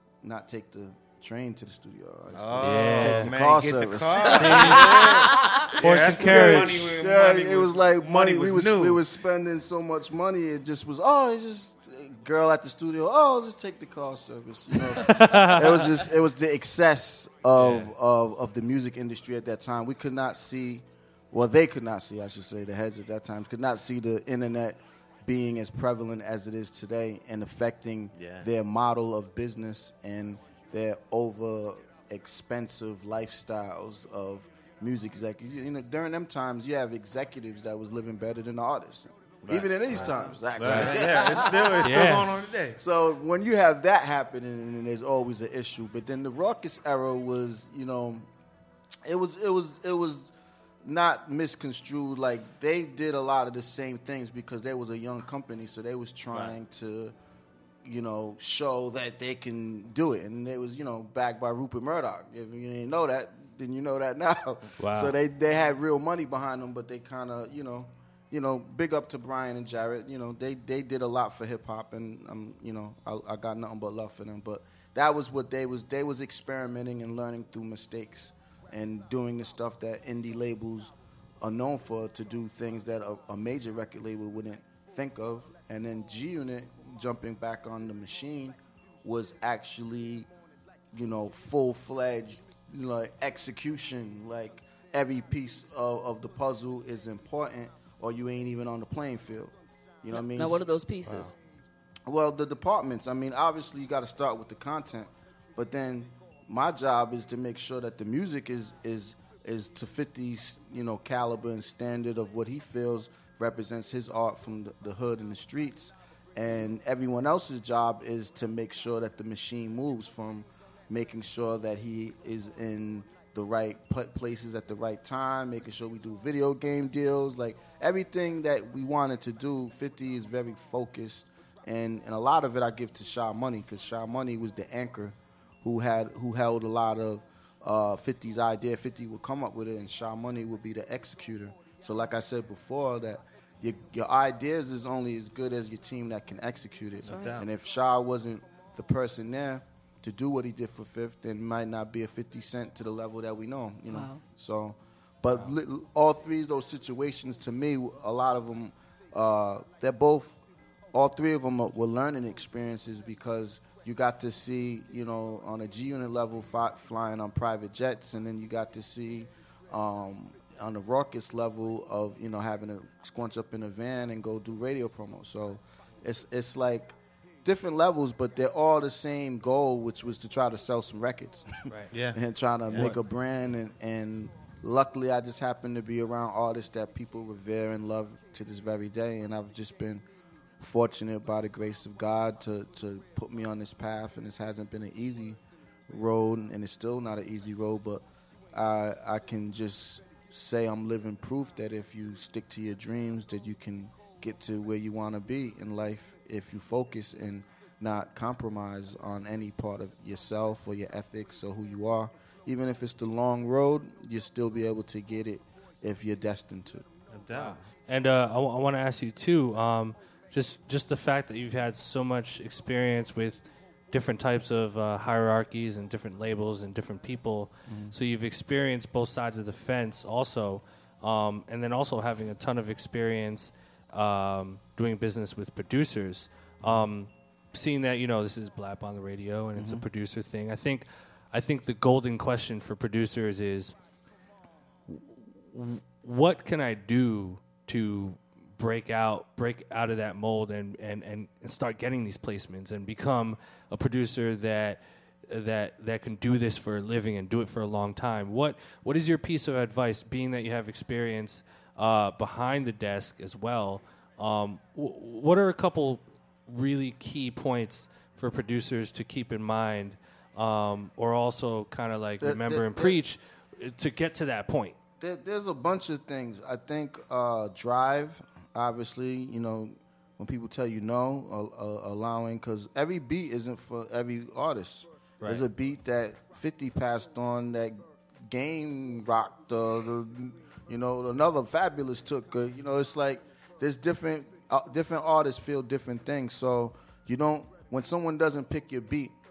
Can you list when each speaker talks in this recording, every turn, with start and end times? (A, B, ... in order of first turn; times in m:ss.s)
0:00.2-0:42.1 A
0:02.3-0:09.0 B
0:02.6-0:03.3 C
0:04.2-0:06.9 C
0:14.9-0:16.0 C
0:17.6-0:17.9 C
0:28.2-0:28.5 B
0:39.4-0:42.8 B
0:39.9-0:41.0 C
0:41.8-0:42.4 C
0:42.8-0:48.2 A
0:49.0-0:50.3 A
0:50.8-0:57.1 A
0:57.8-1:30.3 A
1:04.8-1:05.1 C
1:30.9-1:40.6 A
1:40.1-1:41.3 D
1:41.1-1:41.3 C
1:42.1-2:40.4 A
2:27.0-2:27.4 B
2:27.1-2:27.4 D
2:33.9-2:34.2 D
2:40.9-3:10.0 A
3:01.9-3:02.9 B
3:10.6-3:36.8 A
3:37.1-3:37.6 B
3:37.3-4:03.7 C
3:47.7-3:47.9 A
3:59.5-3:59.8 A
4:04.9-4:34.8 C
4:32.2-4:33.0 A
4:35.0-4:59.1 A